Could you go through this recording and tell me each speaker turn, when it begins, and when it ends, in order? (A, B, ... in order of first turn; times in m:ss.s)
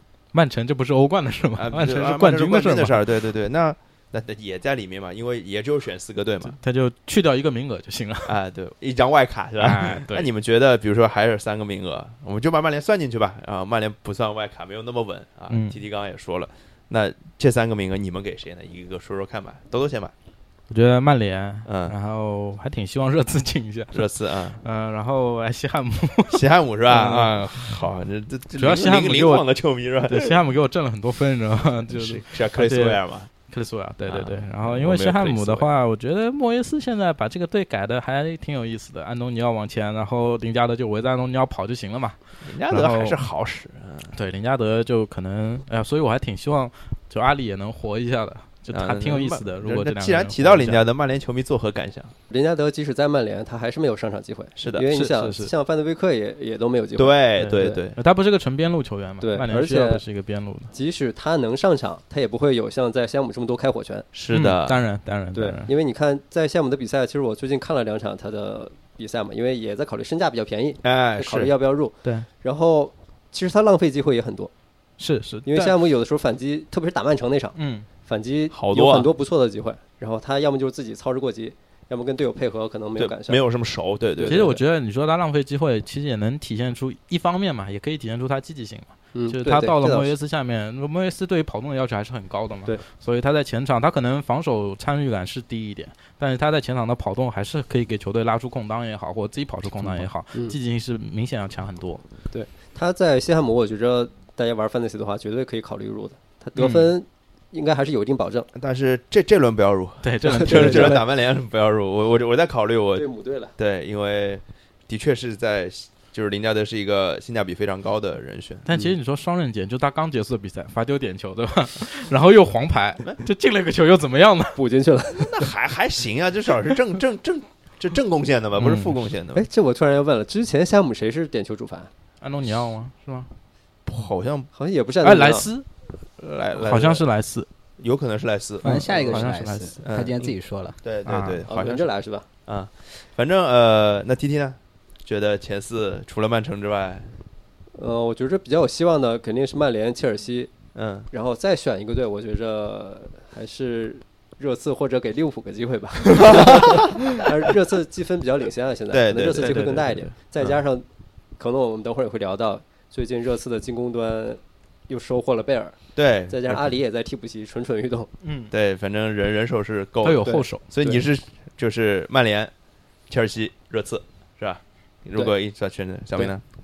0:00.3-0:03.0 A
0:01.6-0:06.6 B
0:06.5-0:08.4 A
0:08.3-0:20.1 B
0:09.6-0:10.3 A
0:15.5-0:15.8 A
0:20.7-0:27.8 A
0:21.7-0:21.9 B
0:23.9-0:24.6 B
0:26.3-0:30.4 B
0:28.6-0:29.5 A
0:30.0-0:43.2 A
0:31.9-0:33.3 B
0:34.0-0:35.7 B
0:42.4-0:44.1 B
0:44.1-0:50.9 A
0:48.7-0:52.1 B
0:52.3-0:57.8 C
0:54.6-0:54.9 B
0:54.9-0:55.5 A
0:57.0-0:58.0 B
0:57.4-1:00.7 A
0:59.2-1:00.0 C
1:00.7-1:04.1 C
1:04.1-1:04.8 B
1:04.3-1:05.7 A
1:05.3-1:14.5 C
1:10.8-1:11.5 B
1:15.0-1:15.8 A
1:15.4-1:23.4 C
1:17.6-1:17.9 A
1:18.5-1:19.1 B
1:23.0-1:24.5 B
1:24.2-1:24.6 C
1:24.2-1:42.0 A
1:29.1-1:30.1 C
1:39.8-1:40.6 C
1:42.3-1:48.5 C
1:46.6-1:46.9 A
1:48.5-1:58.7 B
1:50.0-1:51.0 A
1:50.2-1:51.0 C
1:52.9-1:53.5 C
1:58.6-2:04.6 A
2:04.6-2:05.5 C
2:05.2-2:09.4 B
2:08.6-2:09.0 A
2:09.3-2:11.9 C
2:12.2-2:13.3 A
2:13.8-2:14.5 B
2:14.5-2:15.5 C
2:15.0-2:15.7 A
2:16.2-2:17.0 B
2:16.5-2:17.5 A
2:17.8-2:18.9 B
2:18.6-2:20.8 D
2:18.6-2:19.8 A
2:19.8-2:20.3 B
2:20.8-2:21.9 B
2:21.0-2:21.5 A
2:21.5-2:22.2 C
2:22.4-2:27.1 B
2:27.7-2:30.5 C
2:30.7-2:31.1 B
2:31.1-2:40.8 C
2:38.9-2:39.6 B
2:39.3-2:40.2 A
2:41.4-2:48.1 C
2:45.9-2:46.8 B
2:48.2-2:48.5 A
2:48.5-2:52.5 B
2:50.0-2:50.6 A
2:50.2-2:51.0 C
2:53.1-2:56.4 B